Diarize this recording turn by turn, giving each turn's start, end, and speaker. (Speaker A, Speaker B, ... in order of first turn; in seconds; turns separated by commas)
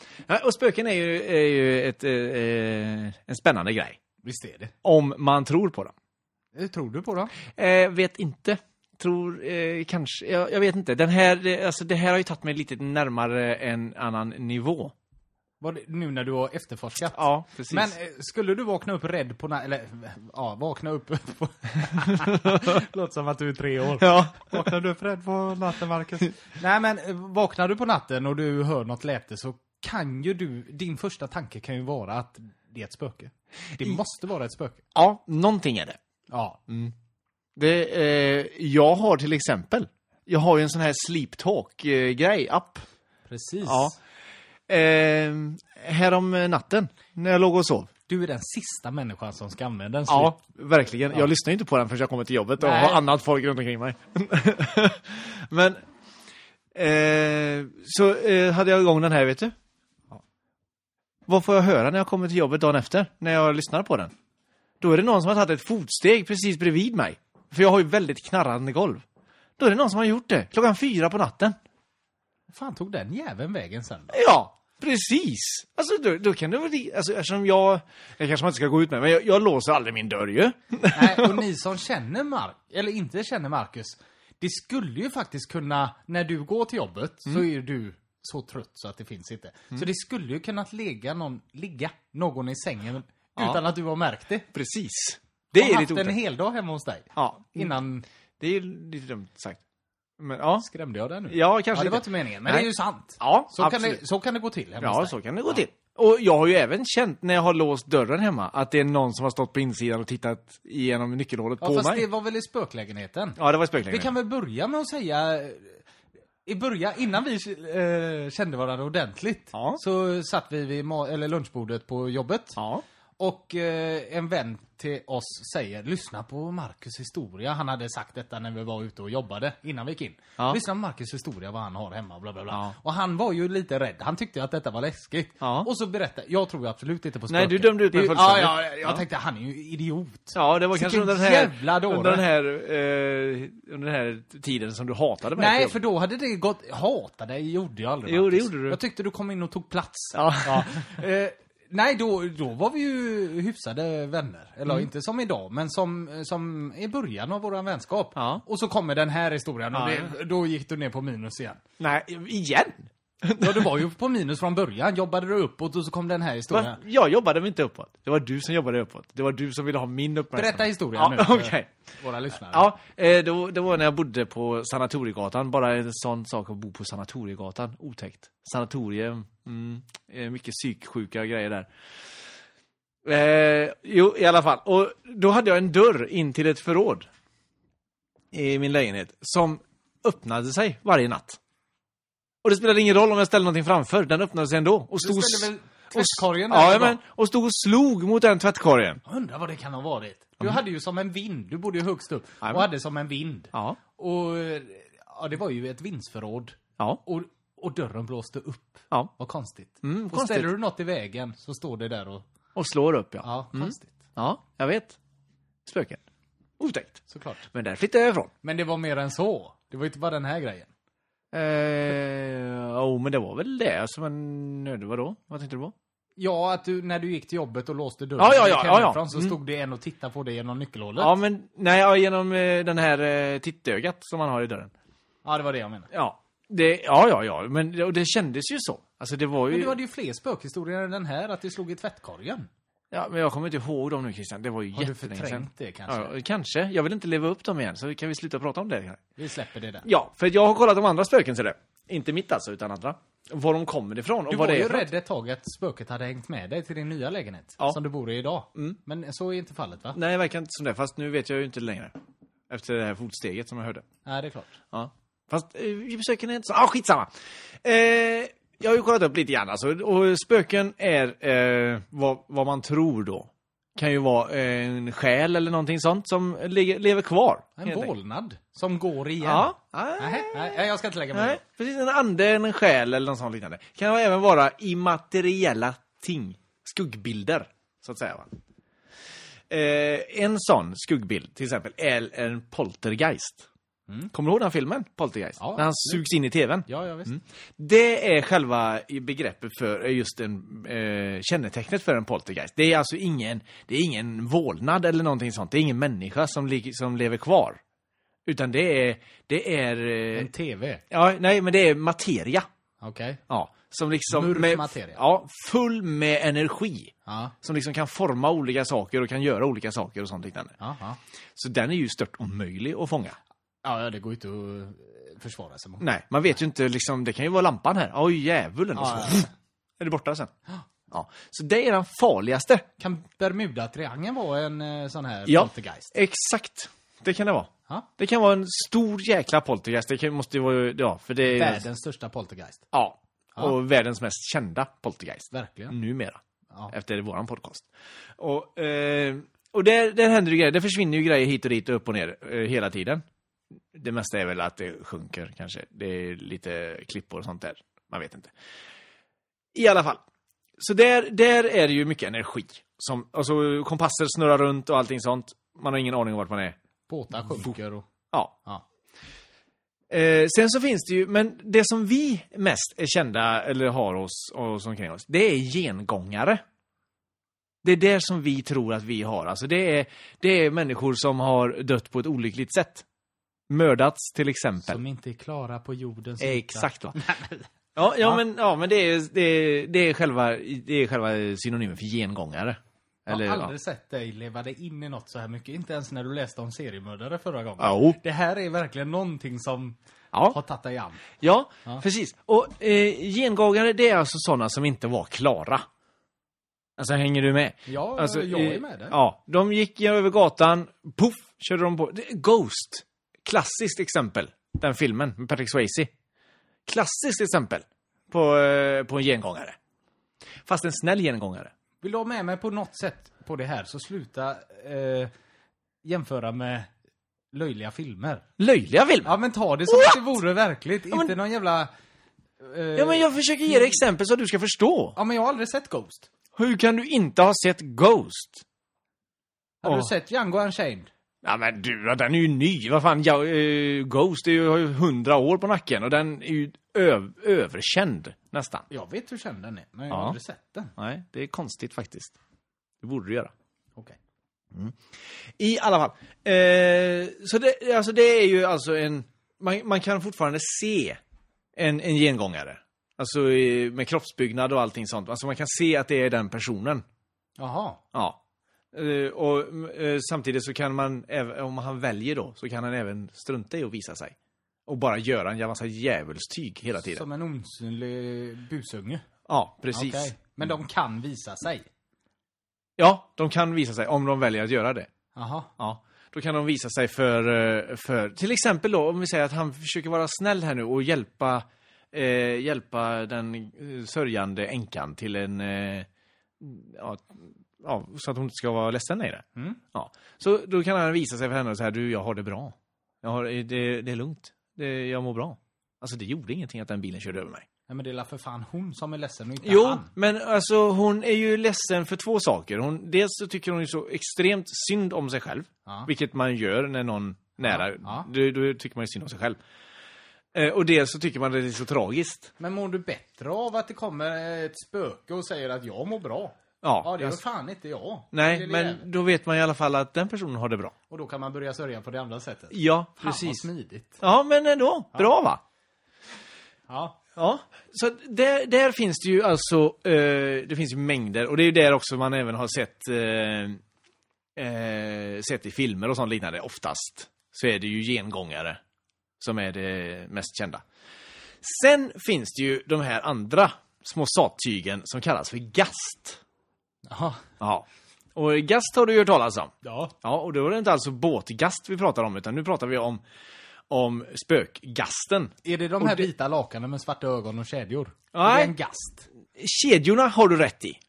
Speaker A: 0.3-4.0, Speaker B: 4.2-4.7, Speaker A: 4.8-5.9, Speaker B: 6.5-7.3, Speaker A: 7.5-14.9, Speaker B: 15.6-34.8, Speaker A: 17.1-17.9, Speaker A: 22.2-22.7, Speaker A: 24.0-26.3, Speaker A: 35.0-36.0, Speaker B: 36.3-36.6, Speaker A: 36.7-36.9, Speaker A: 37.6-42.8, Speaker B: 43.3-44.0, Speaker A: 43.6-44.0, Speaker A: 44.7-47.9, Speaker B: 48.1-50.4, Speaker A: 50.1-55.8, Speaker B: 52.6-53.0, Speaker A: 56.7-59.5, Speaker A: 61.3-64.1, Speaker A: 64.8-69.0, Speaker A: 69.6-71.6, Speaker B: 72.5-74.2, Speaker A: 74.1-81.4, Speaker B: 80.9-94.5, Speaker A: 94.5-96.2, Speaker B: 95.5-98.1, Speaker A: 97.2-97.7, Speaker A: 98.4-99.6, Speaker A: 100.2-100.7, Speaker B: 100.6-105.6, Speaker A: 101.3-104.0, Speaker A: 104.8-112.1, Speaker B: 111.6-115.8, Speaker A: 113.4-114.1, Speaker B: 116.5-122.6, Speaker A: 119.5-119.8, Speaker A: 122.6-122.8, Speaker B: 123.2-142.2, Speaker A: 135.4-135.7, Speaker A: 137.3-139.0, Speaker A: 140.3-145.8, Speaker B: 145.3-161.6, Speaker A: 148.1-148.8, Speaker A: 150.1-150.9, Speaker A: 158.2-158.4, Speaker A: 159.7-160.1, Speaker A: 161.8-163.7, Speaker B: 163.4-166.8, Speaker A: 166.5-171.7, Speaker B: 170.3-172.7, Speaker A: 172.5-181.7, Speaker A: 183.1-187.1, Speaker A: 188.3-191.4, Speaker A: 192.4-199.0, Speaker B: 195.0-197.0, Speaker B: 199.1-212.2, Speaker A: 203.5-203.8, Speaker A: 209.8-210.5, Speaker A: 212.6-215.0, Speaker B: 213.2-213.9, Speaker A: 215.7-216.0, Speaker A: 216.6-218.3, Speaker B: 217.1-217.4, Speaker B: 218.4-220.7, Speaker A: 221.3-225.7, Speaker B: 226.2-231.2, Speaker A: 228.2-229.4, Speaker A: 231.0-234.7, Speaker B: 235.2-235.9, Speaker A: 235.9-239.8, Speaker B: 239.5-242.5, Speaker A: 242.9-249.0, Speaker B: 244.7-246.1, Speaker B: 249.2-249.9, Speaker A: 249.8-254.9, Speaker B: 254.3-260.0, Speaker A: 259.9-262.0, Speaker A: 262.5-263.9, Speaker B: 264.1-264.6, Speaker A: 264.7-267.1, Speaker A: 267.6-277.9, Speaker B: 277.6-281.4, Speaker A: 279.2-280.6, Speaker A: 281.1-288.3, Speaker A: 289.5-293.5, Speaker A: 294.1-307.6, Speaker B: 295.4-296.0, Speaker B: 296.7-297.2, Speaker A: 308.3-310.3, Speaker B: 310.1-310.8, Speaker A: 310.9-312.5, Speaker B: 312.8-313.2, Speaker A: 313.3-320.5, Speaker B: 314.1-315.0, Speaker B: 317.1-317.3, Speaker B: 320.6-321.0, Speaker A: 321.4-323.2, Speaker B: 323.6-325.9, Speaker A: 325.8-330.3, Speaker B: 328.8-329.3, Speaker A: 330.9-332.6, Speaker B: 332.8-335.9, Speaker A: 335.3-341.7, Speaker B: 341.3-342.6, Speaker A: 342.7-346.2, Speaker B: 345.3-345.8, Speaker A: 346.7-347.7, Speaker A: 348.2-353.0, Speaker A: 353.7-358.3, Speaker A: 359.5-360.0, Speaker A: 360.6-366.6, Speaker B: 366.9-367.9, Speaker A: 367.3-367.5, Speaker A: 369.9-376.4, Speaker A: 377.6-382.8, Speaker A: 383.5-384.8, Speaker B: 384.6-387.5, Speaker A: 386.2-387.0, Speaker A: 387.8-393.5, Speaker B: 393.1-399.8, Speaker A: 397.6-398.0, Speaker B: 400.3-401.0, Speaker A: 401.2-405.6, Speaker A: 406.8-415.9, Speaker B: 407.7-409.0, Speaker A: 416.7-419.6, Speaker A: 420.5-421.5, Speaker B: 421.8-425.1, Speaker B: 425.8-426.7, Speaker B: 427.3-428.3, Speaker A: 428.4-429.1, Speaker B: 429.1-431.7, Speaker A: 429.7-430.2, Speaker A: 430.9-431.1, Speaker B: 432.4-433.7, Speaker A: 432.8-435.0, Speaker B: 435.0-436.1, Speaker A: 436.4-438.4, Speaker B: 439.6-440.9, Speaker A: 439.6-439.9, Speaker A: 441.2-448.7, Speaker B: 448.7-450.7, Speaker A: 449.9-450.2, Speaker A: 450.8-452.1, Speaker A: 452.8-453.3, Speaker A: 454.5-454.8, Speaker A: 455.4-461.0, Speaker A: 461.6-466.8, Speaker B: 467.4-467.8, Speaker A: 467.9-468.2, Speaker A: 468.7-474.1, Speaker A: 474.7-477.0, Speaker B: 476.9-479.0, Speaker A: 479.3-480.3, Speaker B: 479.7-481.7, Speaker A: 482.8-484.9, Speaker B: 485.1-485.5, Speaker A: 485.6-495.9, Speaker A: 496.4-507.5, Speaker B: 507.7-509.9, Speaker A: 509.4-519.4, Speaker B: 517.4-518.1, Speaker A: 520.3-522.3, Speaker B: 522.4-528.8, Speaker A: 526.6-527.2, Speaker A: 528.1-530.7, Speaker B: 530.9-534.0, Speaker A: 532.5-533.5, Speaker A: 534.0-535.4, Speaker B: 536.7-537.0, Speaker A: 537.2-543.6, Speaker A: 544.4-548.6, Speaker A: 549.2-550.6, Speaker A: 551.4-556.2, Speaker B: 556.9-557.2, Speaker A: 557.4-563.0, Speaker B: 559.6-559.9, Speaker A: 563.7-566.1, Speaker B: 565.4-569.1, Speaker A: 568.1-568.5, Speaker A: 569.4-570.8